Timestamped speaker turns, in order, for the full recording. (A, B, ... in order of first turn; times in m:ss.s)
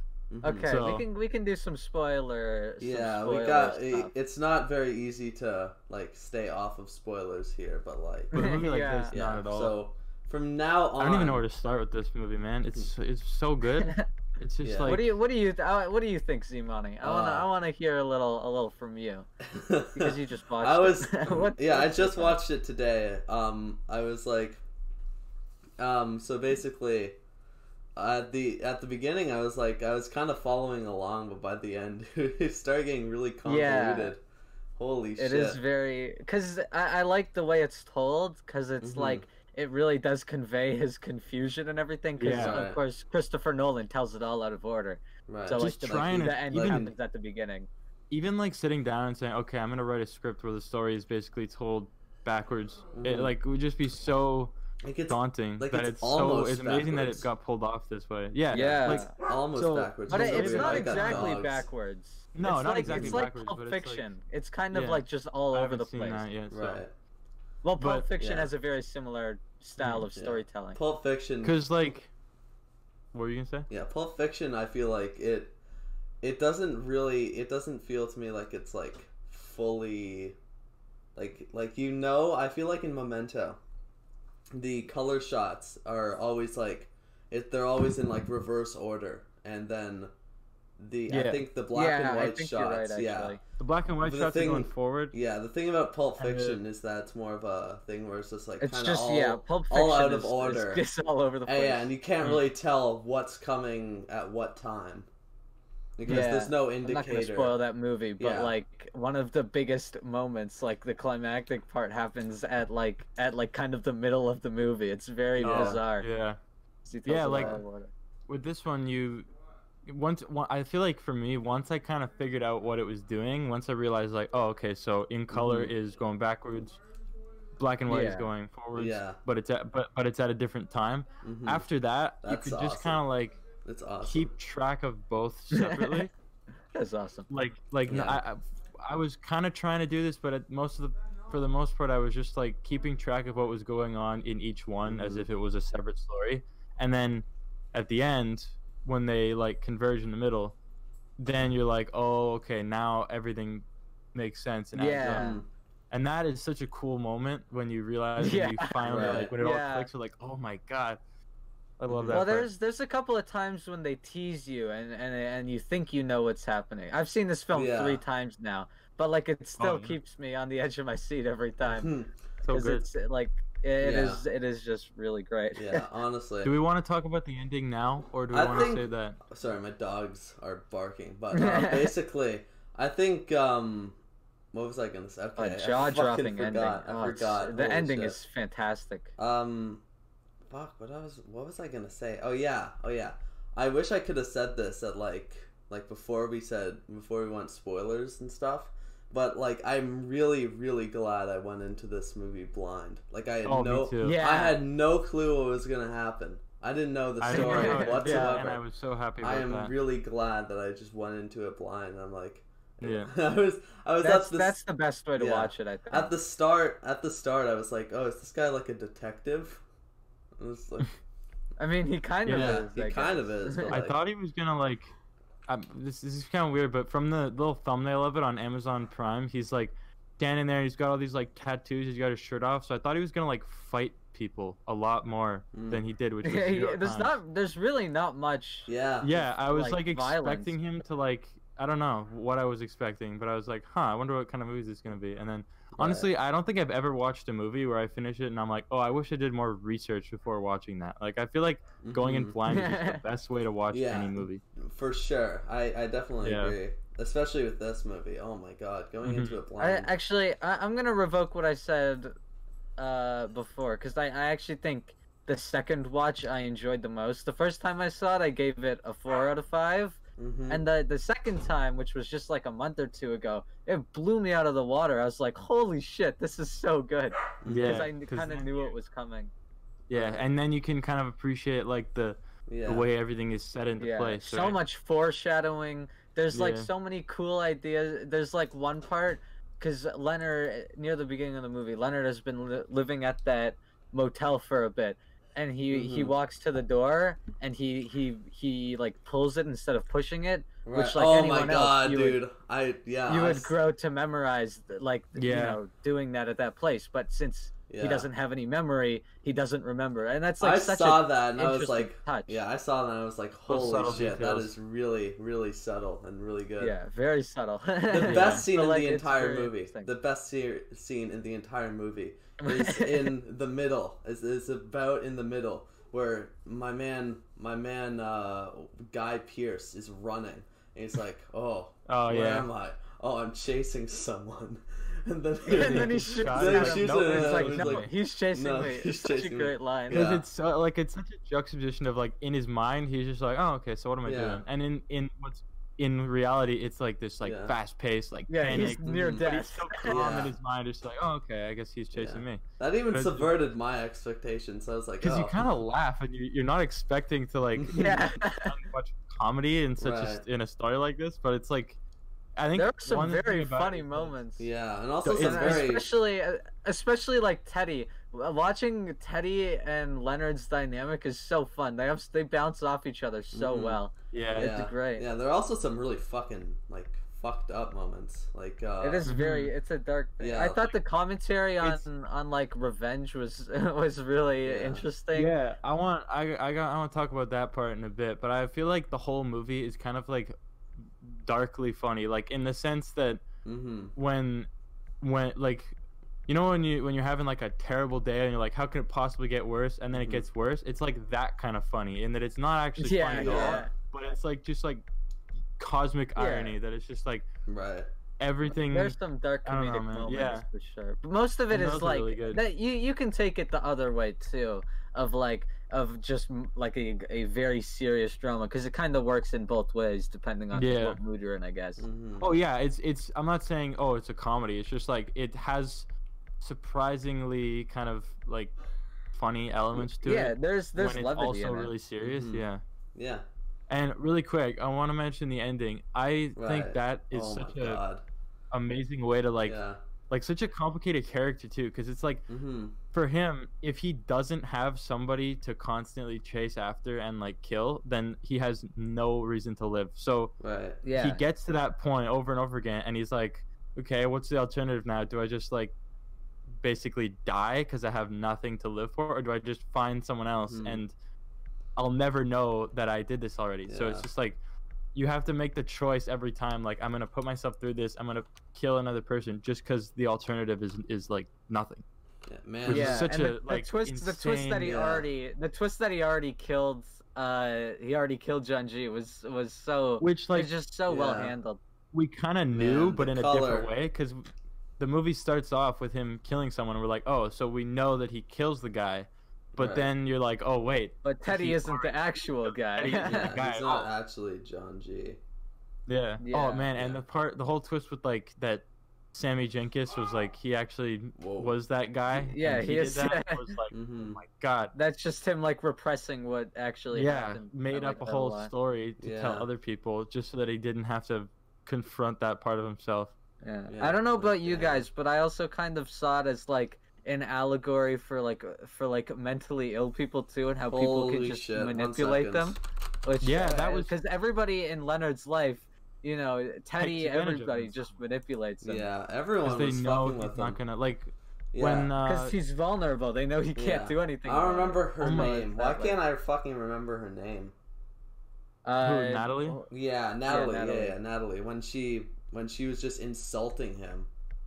0:00.3-0:00.8 A
0:00.4-0:04.1 B
0:00.6-0:01.0 C
0:02.8-0:11.4 A
0:08.3-0:09.7 C
0:08.3-0:09.2 B
0:11.0-0:15.1 C
0:13.8-0:14.1 B
0:14.6-0:15.0 A
0:14.8-0:19.3 B
0:17.0-0:17.5 A
0:19.5-0:24.6 A
0:19.9-0:22.4 B
0:25.8-0:27.2 A
0:28.0-0:34.2 A
0:33.4-0:34.1 B
0:34.8-0:35.6 A
0:35.2-0:47.7 B
0:38.8-0:39.2 A
0:42.2-0:42.6 C
0:42.2-0:42.8 A
0:45.3-0:46.9 A
0:45.6-0:46.9 C
0:48.1-0:54.5 C
0:52.9-0:53.3 A
0:54.8-0:57.3 A
0:55.1-1:01.3 C
0:58.5-0:59.1 B
0:58.5-1:01.7 A
1:00.1-1:06.3 B
1:02.3-1:04.1 C
1:02.9-1:03.2 A
1:04.7-1:06.8 C
1:06.5-1:06.9 A
1:07.6-1:10.8 B
1:07.8-1:08.1 C
1:08.2-1:08.5 A
1:09.8-1:10.0 C
1:10.1-1:11.6 A
1:11.4-1:12.1 C
1:13.1-1:13.7 C
1:13.7-1:15.6 A
1:16.2-1:20.4 A
1:21.1-1:23.6 A
1:24.5-1:30.1 A
1:30.8-1:33.4 A
1:31.1-1:31.4 C
1:31.7-1:33.4 B
1:33.6-1:35.1 C
1:34.0-1:40.8 A
1:36.2-1:36.6 C
1:38.6-1:41.9 B
1:41.4-1:45.1 A
1:46.0-1:47.6 A
1:46.1-1:56.1 B
1:48.2-1:48.5 A
1:55.4-1:55.8 A
1:55.4-1:56.4 C
1:56.8-1:57.9 B
1:57.0-1:57.6 C
1:57.3-1:57.6 A
1:58.3-1:59.3 C
1:59.8-2:06.8 C
2:05.3-2:05.7 A
2:07.6-2:13.4 C
2:07.9-2:08.3 B
2:08.7-2:09.2 A
2:11.2-2:11.6 A
2:12.2-2:13.0 A
2:13.6-2:14.3 A
2:14.0-2:16.1 C
2:15.5-2:16.0 B
2:16.7-2:17.3 B
2:17.3-2:30.6 C
2:17.9-2:18.2 A
2:24.8-2:25.2 A
2:31.2-2:35.4 C
2:34.7-2:35.4 B
2:35.0-2:35.5 A
2:35.9-2:41.0 C
2:38.2-2:39.9 B
2:38.9-2:39.3 A
2:41.8-2:42.5 C
2:41.9-2:42.2 A
2:42.1-2:51.9 B
2:47.5-2:48.0 A
2:49.6-2:50.0 C
2:51.6-2:52.1 A
2:52.4-2:52.8 C
2:52.5-2:55.8 B
2:53.8-2:54.2 A
2:55.5-2:56.5 A
2:56.4-2:59.2 C
2:58.3-3:04.0 A
3:01.3-3:01.9 B
3:04.5-3:08.2 A
3:05.4-3:09.1 B
3:09.2-3:09.8 A
3:10.5-3:28.6 A
3:23.4-3:24.2 C
3:24.0-3:24.6 B
3:27.2-3:29.7 C
3:27.3-3:28.4 B
3:29.2-3:34.6 A
3:32.8-3:33.1 C
3:34.0-3:36.1 B
3:35.2-3:39.6 A
3:40.4-3:41.0 A
3:41.6-3:43.8 B
3:42.2-3:42.6 C
3:42.3-3:44.0 A
3:43.7-3:44.9 C
3:45.5-3:57.2 C
3:55.5-3:55.8 A
3:56.2-4:00.5 B
3:58.7-3:59.2 A
3:59.0-4:14.4 C
4:05.8-4:06.1 A
4:11.8-4:12.4 A
4:12.5-4:13.0 B
4:13.7-4:19.9 A
4:16.2-4:16.6 C
4:19.0-4:19.4 C
4:19.6-4:22.2 B
4:22.8-4:39.3 B
4:30.2-4:30.6 A
4:37.4-4:37.9 A
4:37.4-4:38.7 C
4:39.9-4:44.6 C
4:39.9-4:40.3 A
4:42.5-4:42.9 A
4:43.8-5:02.2 B
4:46.3-4:46.7 C
4:55.7-4:56.1 A
5:00.6-5:03.5 A
5:03.1-5:12.4 B
5:05.2-5:05.6 C
5:07.7-5:08.1 A
5:10.4-5:16.7 A
5:13.5-5:14.5 C
5:13.8-5:14.1 B
5:16.6-5:19.9 B
5:17.9-5:40.2 A
5:18.0-5:18.4 C
5:22.4-5:23.1 B
5:31.9-5:32.5 C
5:35.4-5:40.0 B
5:35.5-5:37.9 C
5:39.9-5:53.3 C
5:44.0-5:44.4 A
5:47.2-5:47.6 A
5:48.3-5:50.0 B
5:48.8-5:49.2 A
5:49.9-5:50.4 A
5:51.9-5:55.4 A
5:55.0-6:01.8 C
5:57.6-5:58.0 A
5:57.7-5:58.5 B
5:59.8-6:00.2 A
6:02.4-6:04.2 C
6:02.5-6:04.5 B
6:04.4-6:05.9 A
6:05.0-6:05.7 C
6:05.2-6:15.0 B
6:13.3-6:13.8 A
6:14.1-6:14.5 C
6:14.3-6:19.1 A
6:18.8-6:25.3 B
6:19.1-6:19.5 C
6:20.2-6:20.7 A
6:24.4-6:24.8 A
6:25.1-6:30.3 C
6:31.0-6:33.2 C
6:33.4-6:33.9 A
6:34.0-6:34.5 C
6:35.0-6:35.7 C
6:36.3-6:44.8 C
6:39.9-6:40.2 A
6:42.8-6:43.7 B
6:43.2-6:43.6 A
6:45.6-6:47.3 C
6:46.2-6:46.6 B
6:47.5-6:47.9 A
6:48.2-6:50.4 C
6:48.7-7:01.9 B
6:51.5-6:52.4 C
7:00.5-7:01.0 C
7:01.8-7:02.3 A
7:02.2-7:05.8 C
7:06.4-7:08.6 C
7:09.1-7:12.6 C
7:10.0-7:11.7 B
7:12.0-7:12.4 A
7:12.9-7:13.2 A
7:13.7-7:17.8 C
7:16.4-7:18.0 A
7:18.5-7:19.6 C
7:19.4-7:19.8 A
7:20.1-7:22.3 C
7:22.3-7:22.8 A
7:22.9-7:30.4 C
7:30.4-7:30.8 A
7:30.8-7:31.2 B
7:30.9-7:35.7 C
7:36.6-7:40.9 C
7:40.5-7:40.8 A
7:41.8-7:44.4 C
7:43.7-7:44.1 A
7:44.9-7:51.8 C
7:52.3-7:53.0 A
7:52.6-7:54.7 C
7:52.7-8:01.6 B
7:54.6-7:55.1 A
8:00.0-8:00.5 C
8:00.9-8:01.3 A
8:01.9-8:04.2 C
8:02.5-8:03.7 A
8:04.8-8:13.9 C
8:09.5-8:09.9 A
8:11.0-8:13.3 B
8:13.0-8:15.2 A
8:15.9-8:24.7 C
8:16.2-8:16.7 B
8:21.2-8:21.5 A
8:22.2-8:23.5 B
8:23.7-8:24.2 A
8:24.7-8:28.5 B
8:26.9-8:33.1 C
8:29.0-8:29.5 A
8:33.4-8:48.9 B
8:33.7-8:34.8 A
8:40.7-8:42.6 A
8:43.2-8:43.9 C
8:46.8-8:48.0 C
8:48.6-8:50.6 A
8:49.4-8:52.4 C
8:51.5-8:51.9 A
8:52.0-8:56.0 B
8:53.6-8:57.5 A
8:55.0-8:55.4 C
8:58.6-8:59.7 B
8:58.8-8:59.6 C
8:59.7-9:04.1 A
9:00.3-9:01.0 B